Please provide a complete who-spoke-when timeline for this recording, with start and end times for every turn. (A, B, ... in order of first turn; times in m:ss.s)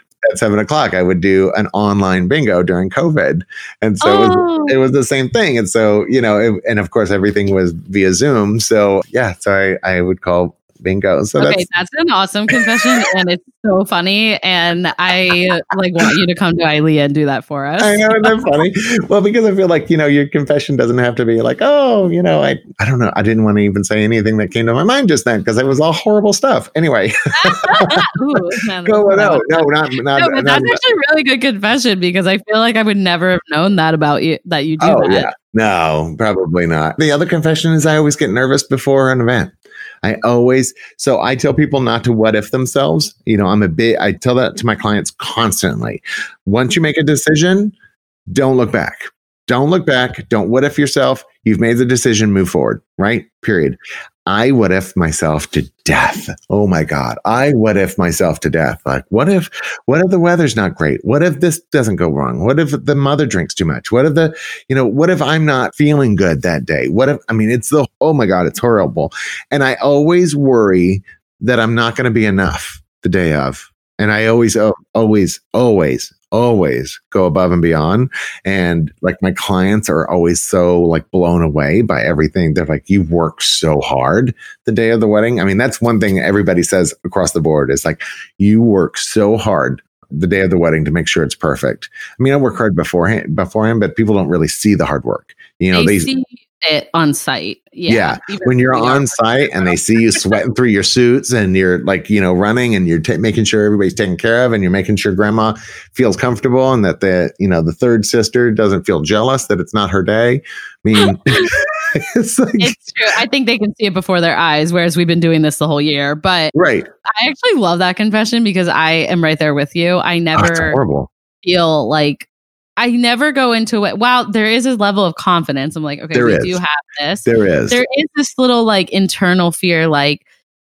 0:00.2-0:11.6 A
0:04.0-0:04.8 B
0:11.4-0:18.4 B
0:12.5-0:13.0 A
0:17.8-0:27.9 A
0:27.3-0:35.3 B
0:28.8-0:30.8 A
0:34.8-0:47.7 A
0:48.3-1:36.1 A
1:35.7-1:40.4 B
1:37.9-1:52.7 A
1:51.0-1:51.5 B
1:52.6-1:56.5 B
1:56.5-1:56.9 A
1:57.0-2:00.8 B
2:00.4-2:01.1 A
2:01.4-2:02.3 B
2:02.8-2:10.2 B
2:06.1-2:06.6 A
2:07.2-2:07.8 A